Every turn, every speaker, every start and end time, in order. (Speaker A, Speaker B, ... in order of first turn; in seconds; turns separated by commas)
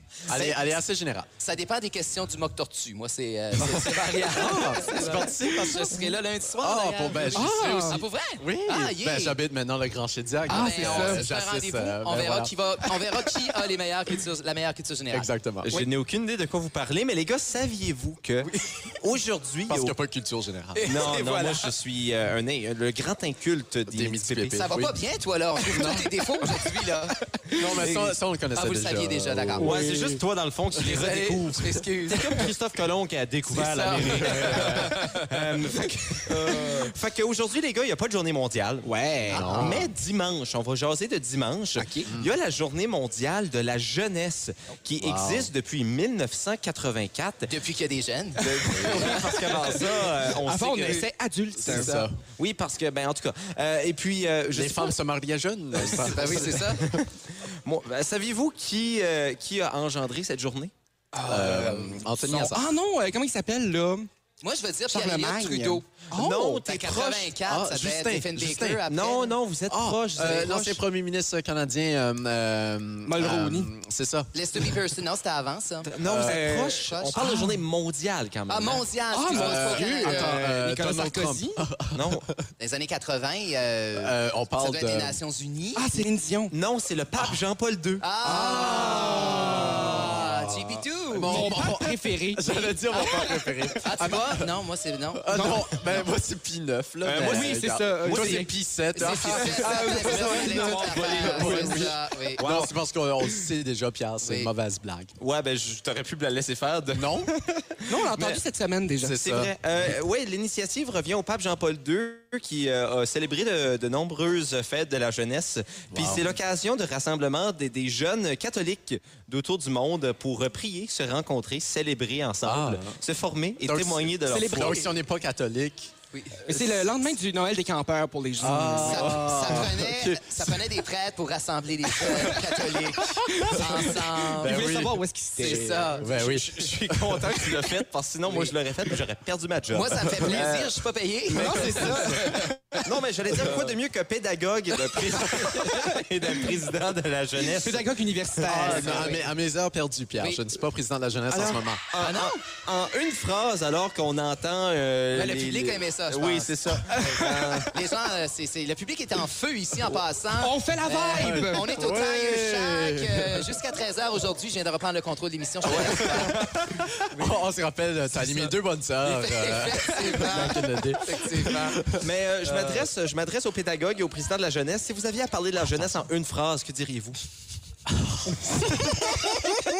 Speaker A: 0.3-1.3, Speaker B: 0.3-0.6, Speaker B: 1.4-9.4, Speaker A: 3.6-6.1, Speaker C: 4.8-5.3, Speaker A: 6.6-12.5, Speaker C: 7.3-8.0, Speaker B: 10.5-15.3, Speaker C: 10.5-11.2, Speaker A: 15.1-15.7, Speaker D: 15.6-19.9, Speaker A: 19.7-21.0, Speaker B: 20.8-21.7, Speaker D: 20.8-24.6, Speaker A: 23.9-24.9, Speaker B: 24.6-27.1, Speaker A: 25.7-26.1, Speaker C: 26.4-27.9, Speaker A: 27.6-29.7, Speaker B: 27.8-29.7, Speaker C: 29.6-30.2, Speaker D: 29.6-38.9, Speaker B: 30.8-32.5, Speaker B: 33.5-35.1, Speaker A: 34.0-35.0, Speaker C: 36.3-36.9, Speaker C: 38.8-39.8, Speaker A: 39.3-39.9, Speaker D: 39.5-47.5, Speaker C: 41.8-42.1, Speaker A: 45.0-45.5, Speaker B: 47.5-49.2, Speaker D: 48.4-51.1, Speaker A: 48.7-49.3, Speaker C: 49.0-49.8, Speaker C: 50.3-52.0, Speaker A: 51.5-52.2, Speaker D: 51.7-55.0, Speaker A: 54.5-57.0, Speaker B: 55.9-56.8, Speaker D: 56.8-60.7, Speaker C: 61.1-64.1, Speaker A: 61.3-62.7, Speaker B: 64.4-65.9, Speaker C: 64.9-66.6, Speaker D: 66.1-67.3, Speaker B: 66.4-69.3, Speaker A: 67.5-68.8, Speaker D: 68.8-70.8, Speaker A: 69.7-74.8, Speaker C: 73.0-73.7, Speaker B: 74.3-75.9, Speaker D: 75.8-78.8, Speaker A: 76.0-76.4, Speaker C: 76.2-77.6, Speaker B: 76.5-77.2, Speaker B: 78.5-80.4, Speaker C: 79.1-81.6, Speaker A: 79.3-82.5, Speaker D: 81.9-82.2, Speaker B: 82.6-86.0, Speaker A: 84.0-85.2, Speaker C: 85.8-86.5, Speaker D: 86.5-88.0, Speaker B: 88.0-91.5, Speaker C: 88.2-90.2, Speaker A: 88.3-94.5, Speaker C: 91.2-93.7, Speaker B: 92.9-95.2, Speaker A: 95.2-105.1, Speaker C: 95.3-96.1, Speaker D: 97.0-98.5, Speaker C: 97.2-101.9, Speaker B: 98.9-102.4, Speaker D: 102.4-102.7, Speaker B: 104.2-104.5, Speaker D: 105.2-108.4, Speaker A: 106.9-107.3, Speaker C: 107.8-109.2, Speaker A: 109.0-109.5, Speaker D: 109.2-124.8, Speaker A: 115.9-116.3, Speaker A: 122.4-123.0, Speaker A: 123.6-125.9, Speaker C: 124.3-124.9, Speaker B: 126.1-126.5, Speaker C: 126.4-129.7, Speaker A: 128.4-130.7, Speaker B: 128.8-134.6, Speaker C: 132.0-136.0, Speaker A: 133.3-137.6, Speaker B: 135.4-136.1, Speaker D: 136.1-140.8, Speaker B: 139.7-142.1, Speaker C: 141.3-142.8, Speaker D: 141.3-142.2, Speaker A: 141.6-142.2, Speaker D: 142.8-147.9, Speaker C: 143.3-143.7, Speaker C: 145.5-145.8, Speaker C: 147.5-149.2, Speaker A: 148.4-151.8, Speaker D: 151.3-157.6, Speaker B: 152.0-152.4, Speaker B: 155.1-166.4, Speaker C: 156.9-157.8, Speaker C: 160.4-161.7, Speaker A: 161.1-163.6, Speaker A: 165.7-172.1, Speaker B: 168.2-168.5, Speaker B: 169.0-171.8, Speaker D: 171.9-177.2, Speaker A: 177.9-179.4